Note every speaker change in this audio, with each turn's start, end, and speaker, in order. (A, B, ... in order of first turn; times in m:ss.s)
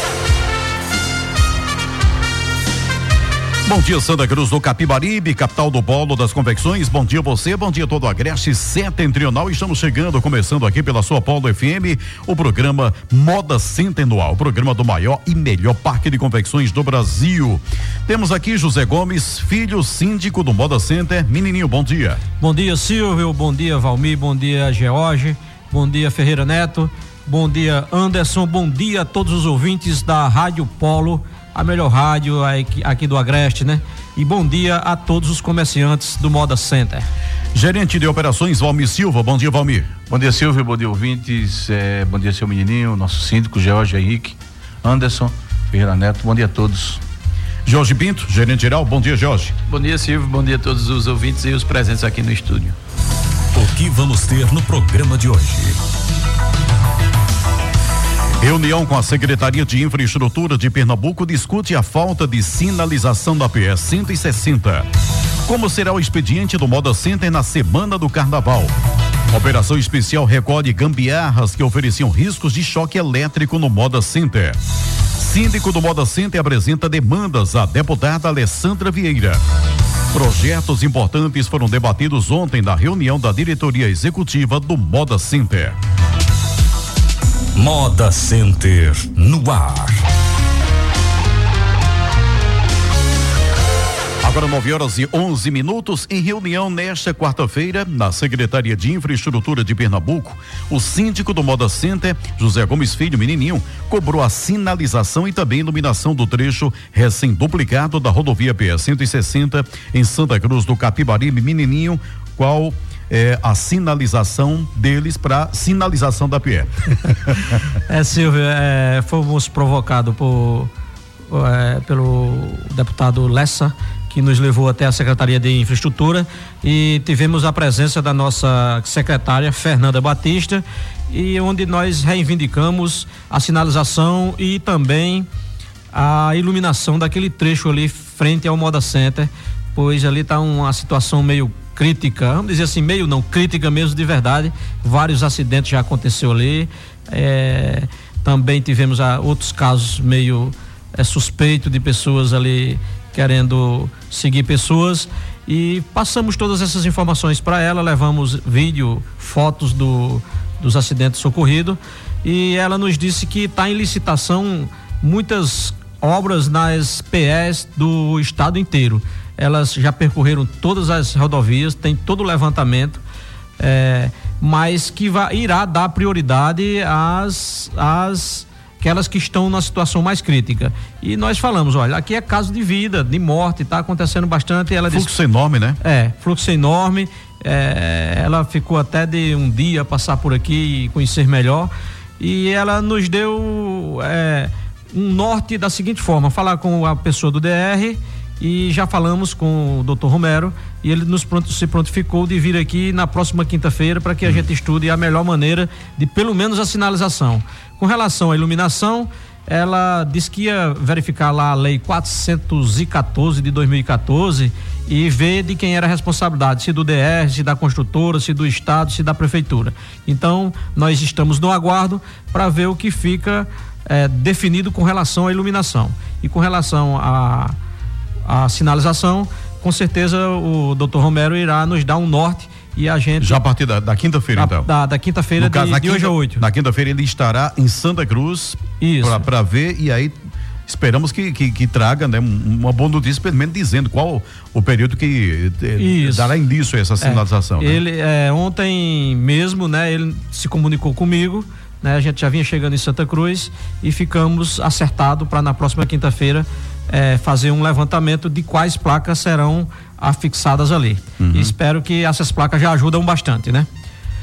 0:03.6-0:22.2 A
0:22.4-0:37.0 B
0:37.5-0:39.9 A
0:40.1-0:47.0 C
0:47.6-0:49.5 A
0:49.7-0:52.7 D
0:53.5-0:55.8 E
0:58.4-1:04.9 A
1:05.4-1:08.7 A
1:09.3-1:14.6 A
1:15.2-1:19.4 A
1:20.1-1:25.8 A
1:27.6-1:30.0 E
1:34.2-1:57.6 A
1:57.9-2:00.7 B
2:01.3-2:15.3 B
2:15.9-2:53.0 B
2:53.6-3:05.1 B
3:04.9-3:05.8 A
3:05.8-3:47.6 B
3:48.2-3:53.4 B
3:53.2-3:54.7 A
3:54.3-3:56.4 B
3:55.4-4:00.1 A
3:58.8-3:59.2 B
4:00.7-4:07.8 A
4:05.8-4:06.4 B
4:07.0-4:23.7 B
4:21.2-4:21.5 A